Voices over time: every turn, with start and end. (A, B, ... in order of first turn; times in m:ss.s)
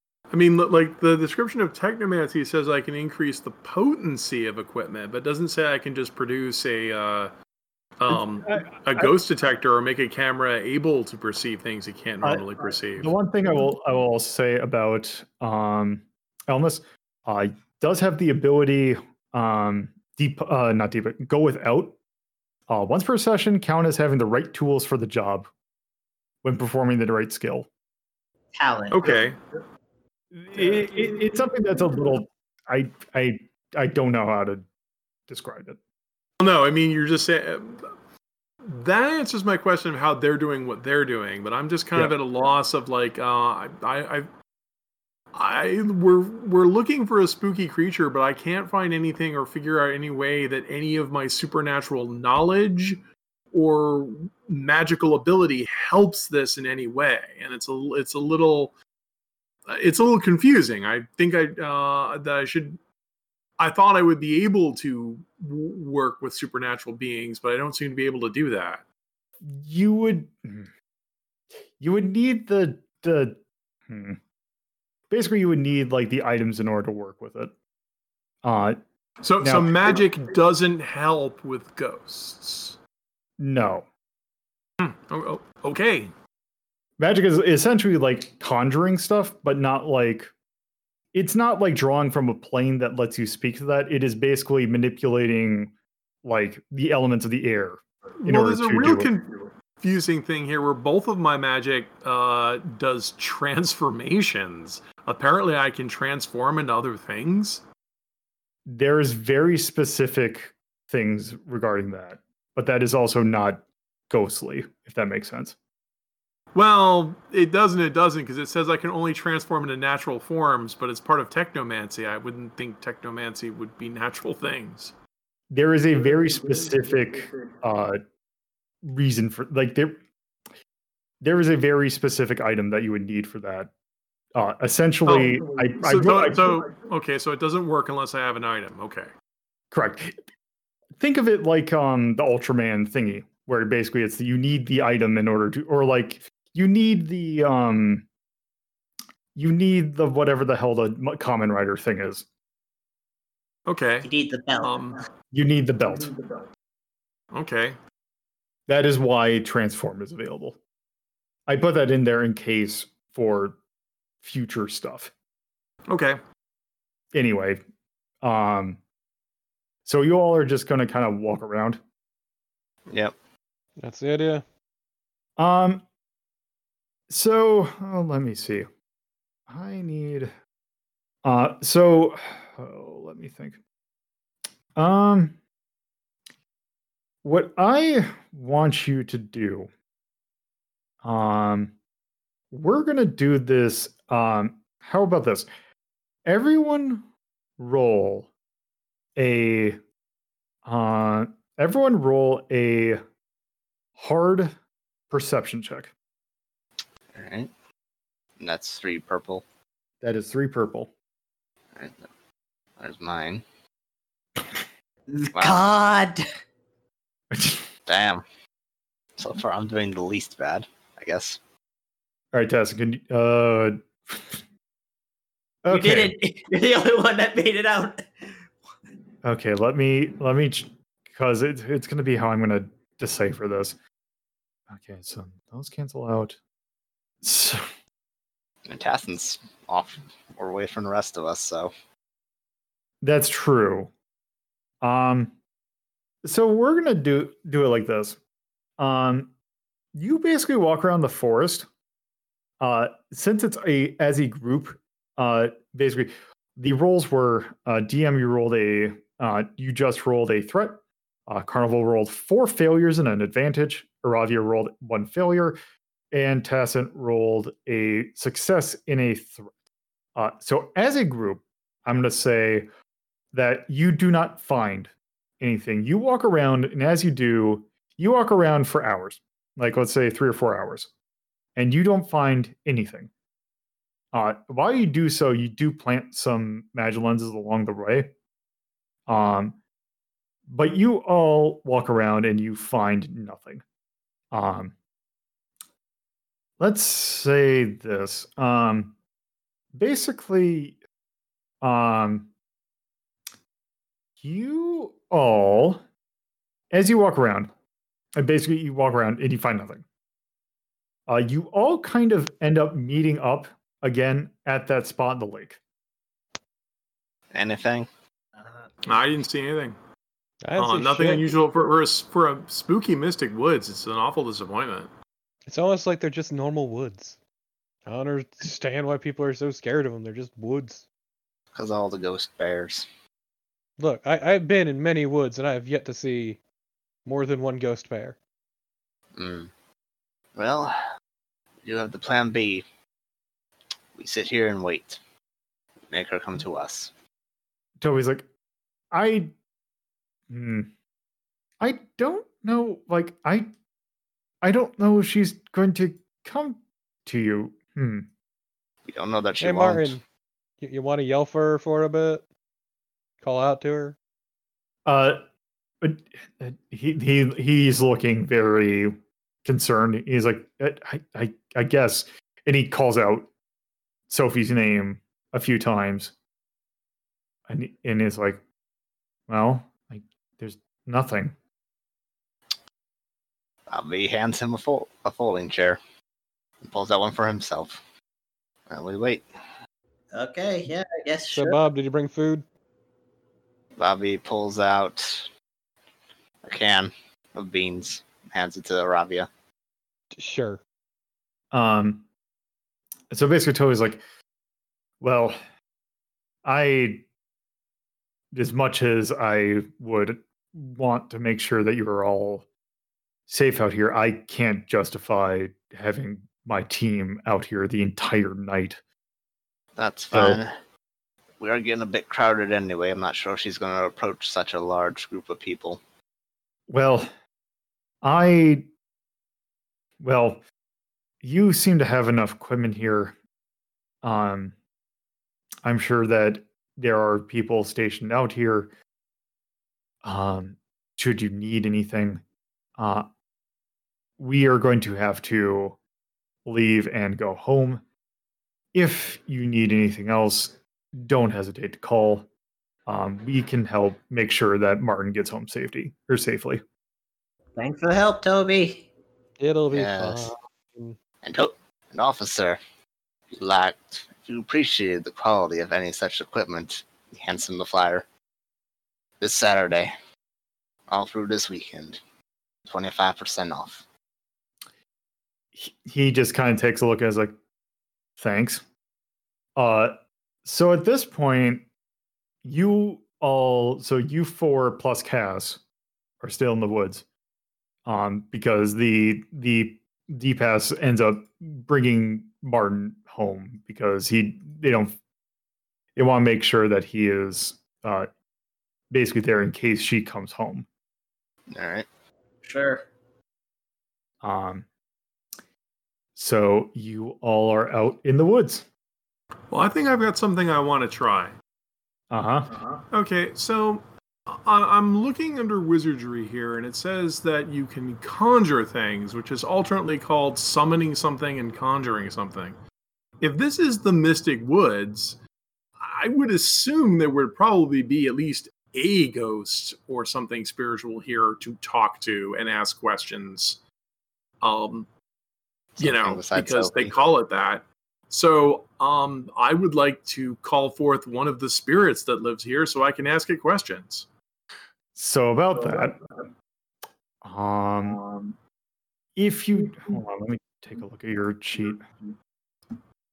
0:00.3-0:07.3 A
0:08.0-0:13.1 A
0:08.1-0:09.1 B
0:12.2-0:22.0 B
0:22.7-0:25.5 B
0:26.4-0:27.7 B
0:28.6-0:29.2 C
0:28.9-0:29.4 A
0:30.3-0:34.6 B
0:35.3-0:35.8 B
0:36.4-0:37.9 A
0:38.6-0:44.3 A
0:45.3-0:53.0 A
0:53.5-0:58.7 A
0:59.7-1:02.8 A
1:03.6-1:08.8 A
1:09.4-1:10.7 B
1:11.8-1:13.4 B
1:13.9-1:14.2 B
1:15.1-1:17.5 B
1:18.4-1:18.8 B
1:19.2-1:22.8 A
1:19.4-1:20.0 B
1:23.4-1:23.9 B
1:24.8-1:26.1 A
1:27.0-1:30.3 B
1:31.1-1:39.1 B
1:38.2-1:47.6 A
1:48.7-1:55.6 B
1:56.5-2:04.9 A
2:05.5-2:08.0 B
2:08.8-2:10.0 B
2:11.2-2:13.7 B
2:14.3-2:16.7 B
2:15.0-2:19.1 A
2:19.7-2:20.2 B
2:21.0-2:28.1 B
2:29.3-2:32.3 B
2:33.7-2:34.1 A
2:34.0-2:34.9 C
2:34.6-2:35.0 A
2:35.3-2:36.1 B
2:37.3-2:37.8 A
2:38.7-2:40.6 B
2:41.5-2:43.6 B
2:44.2-2:45.1 B
2:45.9-2:46.2 A
2:47.1-2:47.6 B
2:48.2-2:48.8 B
2:49.8-2:51.8 B
2:52.9-2:53.1 D
2:53.8-2:54.4 E
2:55.4-2:55.8 B
2:57.1-2:58.7 B
2:59.5-3:00.3 B
3:01.2-3:03.6 B
3:04.8-3:05.4 B
3:07.2-3:09.7 B
3:11.0-3:11.7 B
3:12.5-3:15.5 B
3:16.2-3:17.0 B
3:17.6-3:18.3 B
3:19.2-3:19.8 B
3:20.6-3:23.0 B
3:24.0-3:24.5 B
3:25.1-3:25.9 B
3:27.1-3:27.5 D
3:28.4-3:29.4 D
3:30.0-3:30.9 B
3:31.8-3:32.1 D
3:32.8-3:33.4 D
3:35.1-3:36.2 C
3:35.3-3:35.6 D
3:37.3-3:37.7 B
3:37.9-3:38.2 D
3:39.2-3:41.4 D
3:42.3-3:44.4 B
3:45.6-3:46.1 B
3:45.7-3:48.3 C
3:49.2-3:53.8 B
3:54.7-3:56.4 B
3:57.2-3:57.6 B
3:58.6-4:01.7 D
4:03.0-4:03.9 B
4:04.8-4:05.3 B
4:06.2-4:08.2 B
4:08.8-4:09.3 B
4:09.9-4:11.7 B
4:12.6-4:25.6 B
4:26.1-4:29.5 B
4:30.2-4:32.7 B
4:33.3-4:40.9 B
4:41.6-4:43.1 B
4:44.1-4:48.1 B
4:49.1-4:49.6 B
4:50.5-4:53.6 B
4:54.3-4:54.8 B
4:56.6-4:58.9 B
4:59.7-5:00.8 B
5:01.6-5:02.3 B
5:04.2-5:05.8 B
5:06.7-5:07.5 B
5:08.2-5:09.8 B
5:11.1-5:15.6 B
5:17.3-5:17.9 D
5:18.8-5:19.8 A
5:20.4-5:21.3 E
5:20.6-5:24.9 A
5:25.5-5:27.2 E
5:27.8-5:30.8 E
5:31.5-5:32.9 D
5:33.8-5:36.4 E
5:37.0-5:38.2 E
5:39.1-5:39.5 D
5:40.3-5:40.7 D
5:41.6-5:42.6 D
5:44.0-5:45.0 D
5:45.9-5:46.9 D
5:47.8-5:48.3 B
5:48.9-5:49.3 B
5:50.3-5:50.7 B
5:51.6-5:53.5 B
5:54.4-5:58.1 B
5:58.8-6:00.0 D
5:59.4-6:00.0 E
6:00.6-6:02.3 E
6:03.2-6:04.0 E
6:04.8-6:05.2 B
6:05.8-6:13.3 B
6:14.1-6:16.1 B
6:17.5-6:18.4 B
6:19.3-6:21.3 B
6:23.7-6:25.8 D
6:26.6-6:27.8 D
6:28.7-6:29.3 D
6:30.1-6:31.6 C
6:31.3-6:32.4 E
6:33.8-6:35.3 D
6:36.4-6:39.3 D
6:40.1-6:40.6 E
6:41.5-6:42.1 B
6:43.1-6:44.0 B
6:45.0-6:45.4 B
6:46.4-6:47.0 B
6:48.3-6:52.5 B
6:53.3-6:58.8 B
6:59.8-7:00.6 D
7:00.1-7:00.4 B
7:01.4-7:05.8 D
7:06.7-7:07.1 B
7:08.0-7:08.7 B
7:10.0-7:10.4 B
7:11.2-7:13.2 B
7:14.0-7:14.6 B
7:15.6-7:18.7 B
7:20.0-7:22.2 B
7:22.8-7:23.1 B
7:24.2-7:25.8 B
7:26.4-7:27.8 B
7:28.7-7:32.3 B
7:32.8-7:36.6 B
7:37.6-7:38.9 C
7:39.4-7:41.0 E
7:39.7-7:40.3 D
7:41.2-7:42.6 D
7:43.3-7:48.0 D
7:49.2-7:49.9 D
7:50.9-7:52.0 D
7:52.6-7:53.8 D
7:55.5-7:57.3 B
7:58.2-7:58.6 B
7:59.6-7:59.9 B
8:00.4-8:01.6 B
8:02.4-8:05.6 B
8:06.2-8:07.0 B
8:07.8-8:15.0 B
8:16.0-8:18.1 B
8:18.9-8:20.7 B
8:21.5-8:21.9 D
8:22.4-8:22.8 C
8:24.2-8:24.7 B
8:26.1-8:28.7 B
8:29.5-8:31.3 A
8:32.1-8:32.6 B
8:32.9-8:42.6 A
8:43.2-8:45.2 A
8:45.8-8:53.6 A
8:54.4-8:54.9 A
8:55.8-8:56.9 D
8:55.8-9:04.1 A
9:04.9-9:06.0 B
9:07.2-9:08.0 B
9:09.2-9:11.9 B